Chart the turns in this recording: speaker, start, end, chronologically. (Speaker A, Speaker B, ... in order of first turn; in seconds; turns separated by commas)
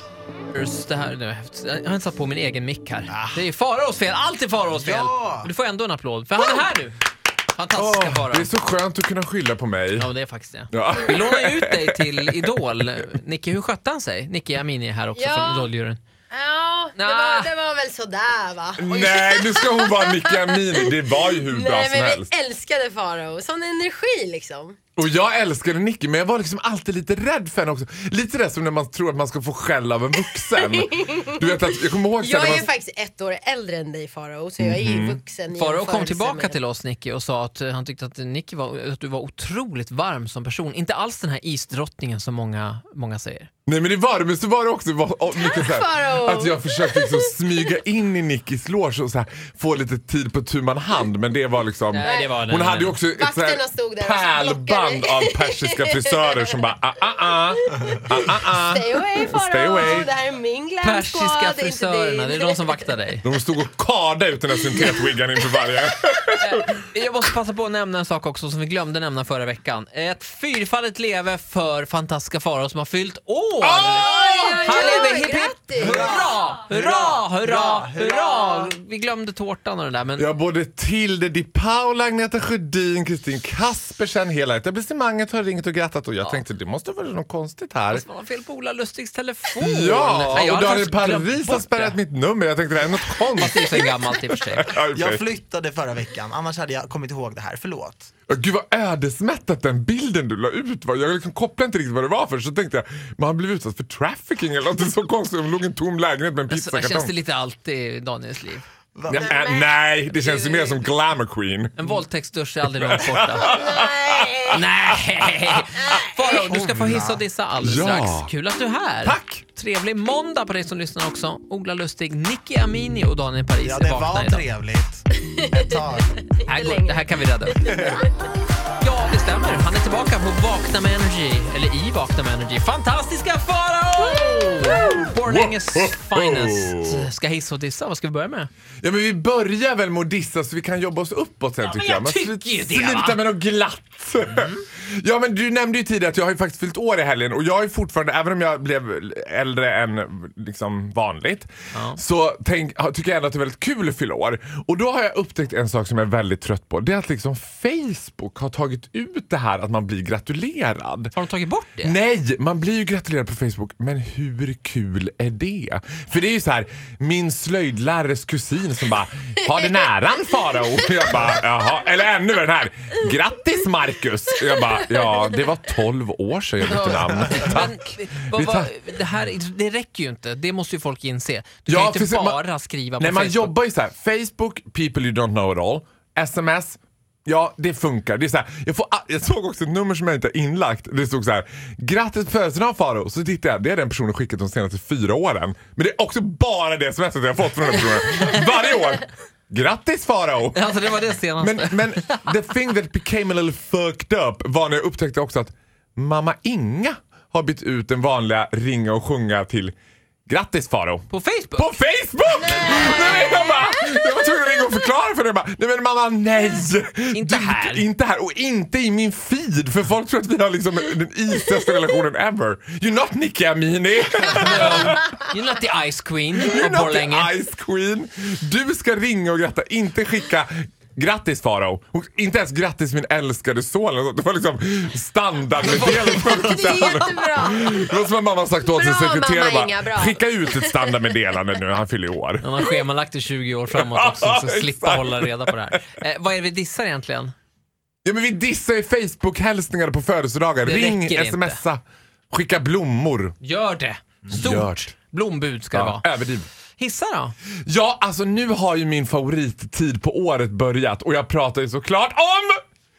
Speaker A: 0.5-7.0, Speaker B: 3.1-3.5, Speaker B: 4.7-5.5, Speaker A: 7.5-8.5, Speaker C: 7.7-10.1, Speaker A: 10.0-16.0, Speaker C: 10.7-12.4, Speaker D: 15.2-15.7, Speaker D: 16.3-24.8, Speaker A: 17.0-17.5, Speaker C: 18.8-22.3, Speaker C: 24.9-32.7, Speaker D: 30.7-36.6, Speaker C: 34.6-35.2, Speaker A: 35.5-43.5, Speaker C: 43.6-60.1, Speaker D: 45.4-47.2, Speaker A: 51.9-53.0, Speaker D: 53.1-56.6, Speaker D: 58.2-62.8, Speaker A: 60.8-63.2, Speaker C: 63.2-66.7, Speaker A: 66.4-80.3, Speaker C: 73.6-75.1, Speaker D: 74.0-75.9, Speaker B: 75.8-78.7, Speaker C: 80.2-88.0, Speaker A: 87.9-92.0, Speaker C: 89.6-95.2, Speaker A: 93.4-94.7, Speaker B: 94.9-98.1, Speaker C: 98.3-107.1, Speaker A: 106.5-108.6, Speaker B: 108.9-109.5, Speaker C: 109.1-111.8, Speaker A: 110.3-110.8, Speaker A: 111.8-113.6, Speaker C: 112.6-115.6, Speaker D: 113.6-114.5, Speaker A: 114.5-124.5, Speaker B: 116.2-117.2, Speaker C: 117.6-118.3, Speaker C: 119.0-119.4, Speaker B: 123.6-126.3, Speaker A: 126.4-128.0, Speaker D: 126.5-127.0, Speaker B: 127.5-128.1, Speaker A: 128.8-138.5, Speaker C: 134.6-137.1, Speaker C: 138.8-161.1, Speaker A: 141.6-143.2, Speaker A: 151.7-152.0, Speaker A: 161.1-161.9, Speaker C: 161.8-177.7, Speaker A: 176.6-183.5, Speaker C: 178.3-178.7, Speaker C: 181.7-182.4, Speaker C: 183.0-200.6, Speaker A: 200.5-202.2, Speaker C: 201.4-209.7, Speaker C: 210.3-225.1, Speaker A: 211.1-211.7, Speaker A: 212.5-213.3, Speaker A: 217.1-217.8, Speaker A: 224.2-227.3, Speaker C: 226.4-242.8, Speaker A: 235.6-237.0, Speaker D: 236.3-237.9, Speaker D: 238.6-241.1, Speaker A: 242.4-247.3, Speaker C: 243.7-245.8, Speaker C: 248.0-253.3, Speaker A: 250.6-251.6, Speaker A: 253.4-256.1, Speaker C: 254.3-254.9, Speaker C: 255.7-256.4, Speaker A: 256.8-257.3, Speaker C: 257.6-262.5